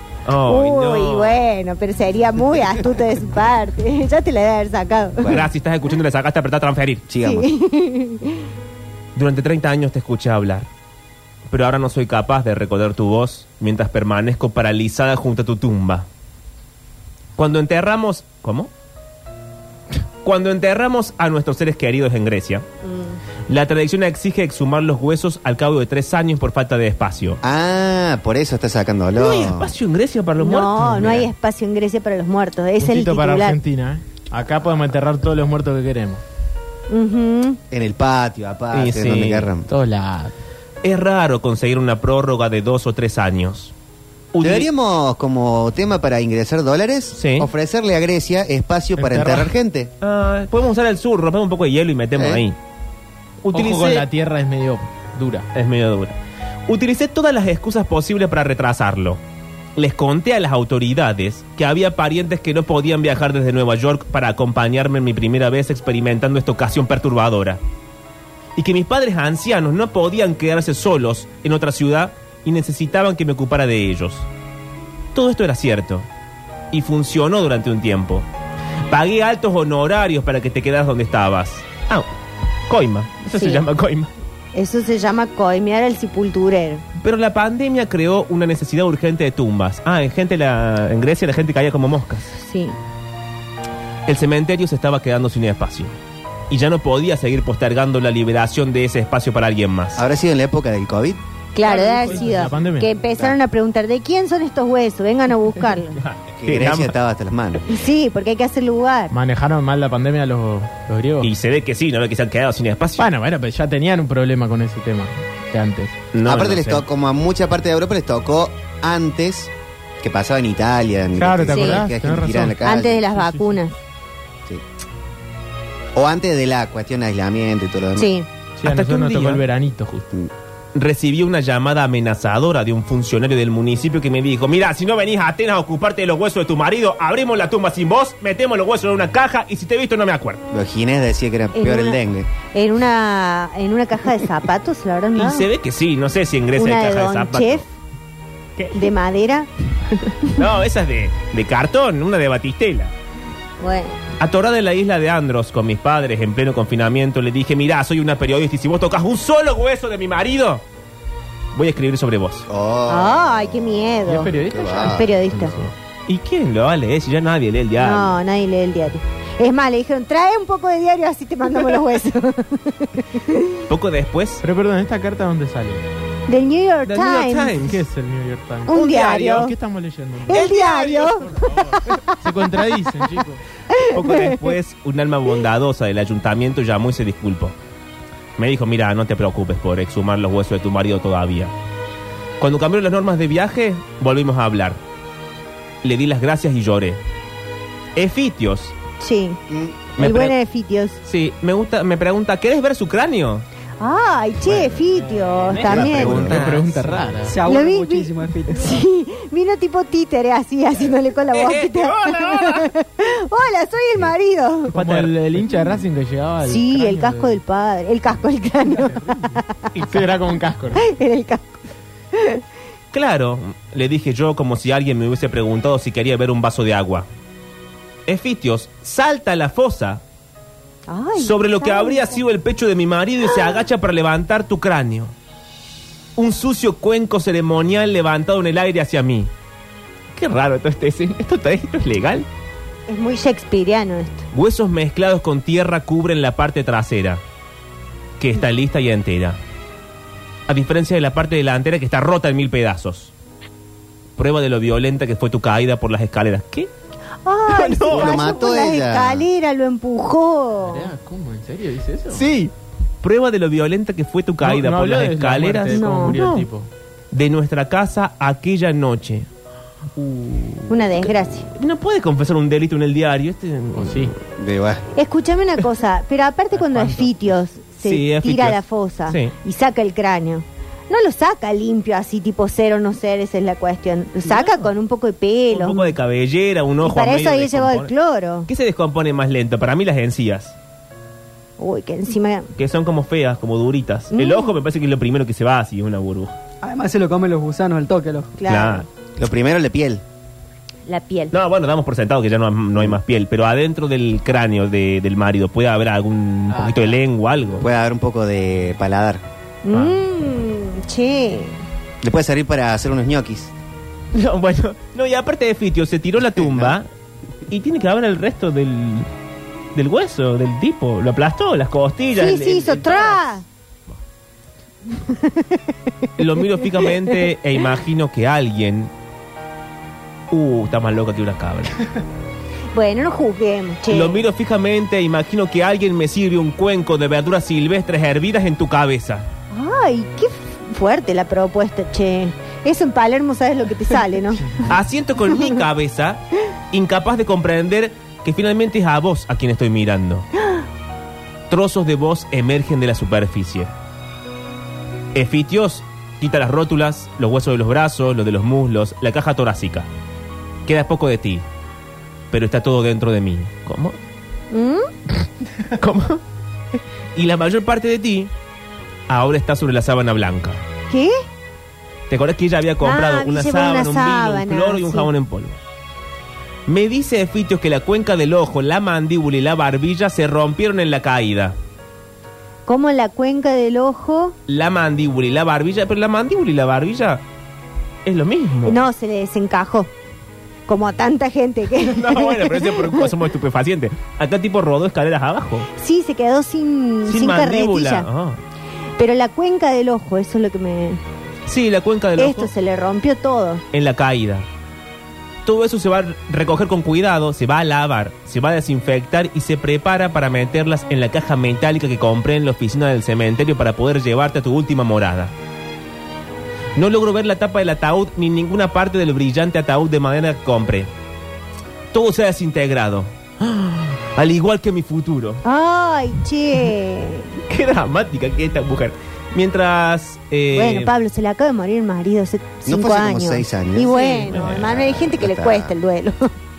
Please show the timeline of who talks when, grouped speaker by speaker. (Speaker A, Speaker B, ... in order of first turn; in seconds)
Speaker A: 0.2-1.4, 5.3-7.0, 9.2-10.7, 11.5-16.1, 17.4-18.7, 20.2-22.6, 23.5-27.4, 29.1-31.3, 38.7-39.5, 40.8-43.7, 44.3-44.7, 47.1-47.5, 50.0-52.6, 53.4-54.0, 55.5-59.2, 59.8-67.6, 68.5-74.3, 75.1-76.1, 76.7-78.3, 78.9-82.1, 82.7-84.1, 87.0-92.3, 94.0-96.0, 96.5-100.0, 101.6-102.5, 106.0-107.0, 111.2-113.1, 116.1-116.8, 128.6-129.4, 130.7-140.4, 145.2-147.6, 148.6-148.9, 150.2-152.9, 154.2-160.6, 161.5-162.5, 166.1-168.2, 173.7-174.4, 176.8-177.8, 178.7-179.5, 180.3-181.9, 183.9-187.6, 188.4-191.5, 192.4-194.8, 195.8-197.0, 197.9-198.7, 200.0-200.3, 201.0-203.4, 205.5-207.1, 211.3-212.7, 219.7-220.1, 222.9-227.1, 228.1-230.0, 231.2-235.1, 236.2-239.3, 240.1-242.3, 244.3-247.2, 248.2-249.4, 250.5-253.1, 254.2-256.7, 257.5-258.4, 262.1-266.5, 267.1-269.3, 270.0-274.1, 277.8-279.3, 285.5-287.9, 288.4-290.6, 292.6-296.4, 298.4-298.9, 301.3-307.6, 309.7-310.0, 314.1-316.9, 317.5-319.1, 319.7-324.0, 326.2-328.9, 330.3-331.8, 333.9-339.3, 344.6-350.3, 351.5-353.7, 355.1-359.9, 360.6-361.4, 362.3-364.0, 365.7-366.2, 367.1-368.3, 369.1-370.6, 372.1-375.6, 376.7-381.6, 384.5-387.2, 388.1-388.8, 391.9-395.7, 397.1-398.4, 401.4-402.5, 403.7-404.5, 405.4-415.3, 416.8-420.9, 421.9-425.4, 427.4-430.9, 433.8-434.7
Speaker B: 0.4-5.4, 7.2-8.5, 22.8-23.2, 30.4-33.6, 36.9-37.6, 83.3-83.6, 84.5-86.8, 92.3-92.8, 101.5-106.0, 107.7-109.1, 121.5-121.8, 122.6-123.8, 128.0-128.3, 141.5-145.5, 146.6-147.7, 148.7-149.5, 153.6-154.0, 162.9-165.6, 167.8-173.6, 176.3-177.7, 178.7-179.5, 180.3-182.4, 183.7-184.4, 199.0-199.4, 200.0-201.0, 203.8-206.3, 207.4-215.1, 216.4-219.8, 220.7-221.6, 222.1-222.4, 230.9-232.1, 233.2-233.6, 242.9-244.2, 257.2-260.9, 265.7-266.2, 270.7-271.5, 274.9-285.9, 286.8-288.5, 291.6-292.5, 294.1-294.5, 298.4-298.9, 300.9-301.3, 309.6-311.6, 322.2-323.4, 325.0-325.6, 332.7-334.2, 339.5-344.7, 364.5-364.9, 370.9-371.1, 372.8-375.1, 382.6-384.4, 388.6-389.9, 390.7-393.1, 395.8-398.1, 399.0-401.0, 402.1-403.6, 425.4-427.4, 430.5-436.3
Speaker C: 5.2-5.5, 7.1-7.5, 27.4-29.7, 37.7-39.7, 44.4-49.9, 52.1-52.4, 100.0-101.2, 106.4-107.6, 116.2-119.5, 120.0-123.0, 125.9-128.1, 140.5-142.3, 162.5-165.7, 199.5-199.8, 205.6-206.5, 257.9-259.3, 274.4-274.8, 299.2-300.0, 306.6-306.9, 307.6-309.2, 312.0-313.5, 316.2-316.7, 432.6-435.7
Speaker D: 32.8-36.2, 39.6-40.3, 49.0-49.5, 53.5-55.5, 102.0-102.9, 109.1-111.3, 113.0-116.0, 121.2-123.5, 128.6-130.1, 164.0-165.6, 174.4-175.9, 177.6-178.8, 179.4-180.5, 181.3-183.4, 206.2-207.4, 214.7-217.4, 218.9-219.2, 219.9-220.8, 260.6-262.3, 264.4-266.7, 273.8-274.1, 276.5-277.2
Speaker E: 207.2-208.8, 296.6-298.3